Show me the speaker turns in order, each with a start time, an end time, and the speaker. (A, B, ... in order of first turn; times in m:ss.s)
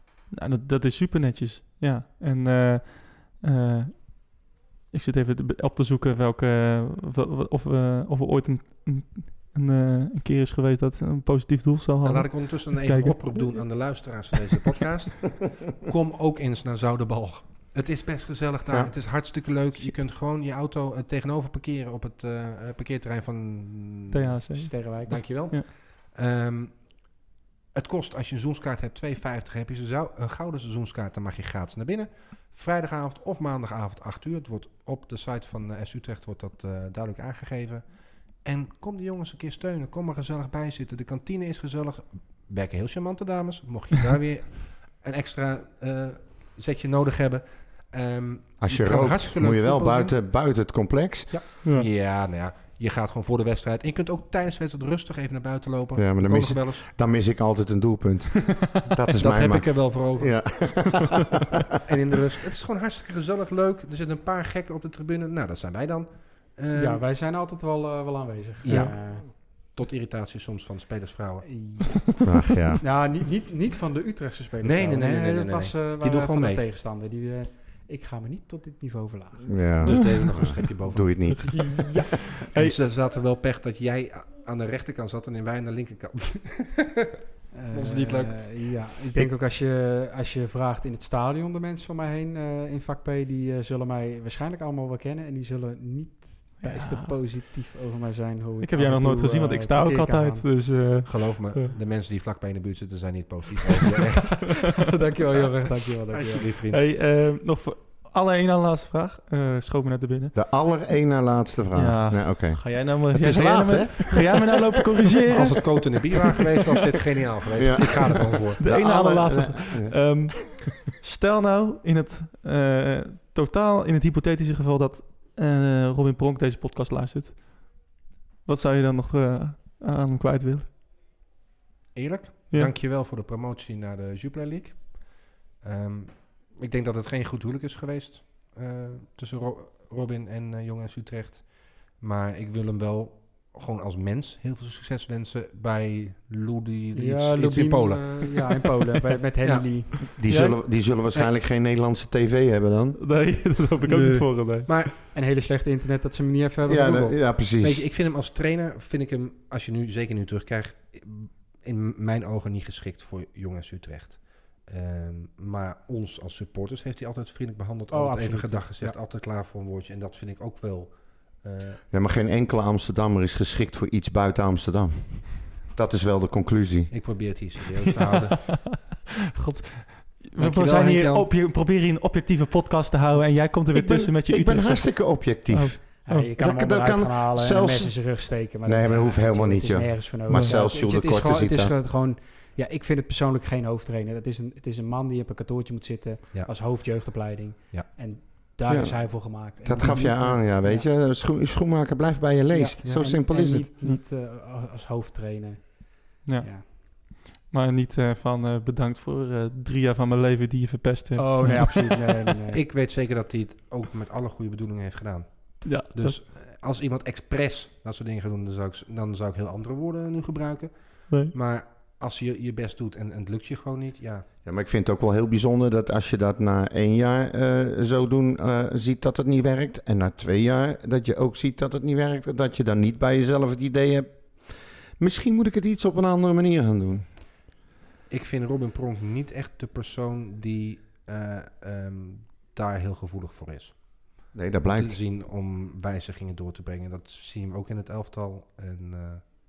0:00.3-0:14.4 A
0:12.0-0:24.4 B
0:24.1-0:25.7 A
0:24.6-0:25.3 C
0:25.0-0:27.2 B
0:27.7-0:50.1 B
0:48.6-0:51.4 D
0:51.7-0:56.9 B
0:56.0-1:01.4 D
0:59.2-1:01.0 B
1:01.8-1:07.0 B
1:06.7-1:09.3 C
1:08.6-1:11.6 B
1:11.4-1:12.2 C
1:12.2-1:12.8 D
1:12.8-1:19.8 C
1:14.6-1:16.6 B
1:19.5-1:22.0 D
1:19.8-1:21.3 B
1:21.4-1:22.4 C
1:22.4-1:22.8 A
1:22.5-1:27.0 B
1:27.5-1:40.5 C
1:27.7-1:28.6 B
1:36.6-1:37.2 A
1:38.6-1:41.7 A
1:41.0-1:44.9 B
1:44.2-1:46.5 C
1:46.1-1:46.9 B
1:46.7-1:50.4 A
1:50.4-1:54.5 D
1:51.8-1:56.1 A
1:55.3-1:58.6 B
1:57.6-2:00.6 D
1:58.6-2:10.7 A
2:11.9-2:28.6 B
2:26.9-2:30.0 C
2:29.4-2:30.0 B
2:30.2-2:33.0 D
2:30.3-2:30.6 A
2:33.0-2:34.7 A
2:33.9-2:35.0 B
2:35.1-2:37.2 C
2:36.6-2:37.9 D
2:37.6-2:51.8 B
2:47.9-2:49.0 C
2:51.9-2:57.4 D
2:56.9-2:58.5 B
2:58.2-3:06.3 A
3:00.4-3:01.3 B
3:03.7-3:11.7 D
3:06.0-3:20.9 C
3:10.3-3:10.6 A
3:19.6-3:23.7 D
3:22.5-3:26.7 C
3:26.2-3:32.0 A
3:31.2-3:32.6 C
3:32.5-3:44.3 B
3:35.6-3:36.2 A
3:44.4-3:57.0 D
3:58.1-4:09.2 B
4:04.3-4:05.0 D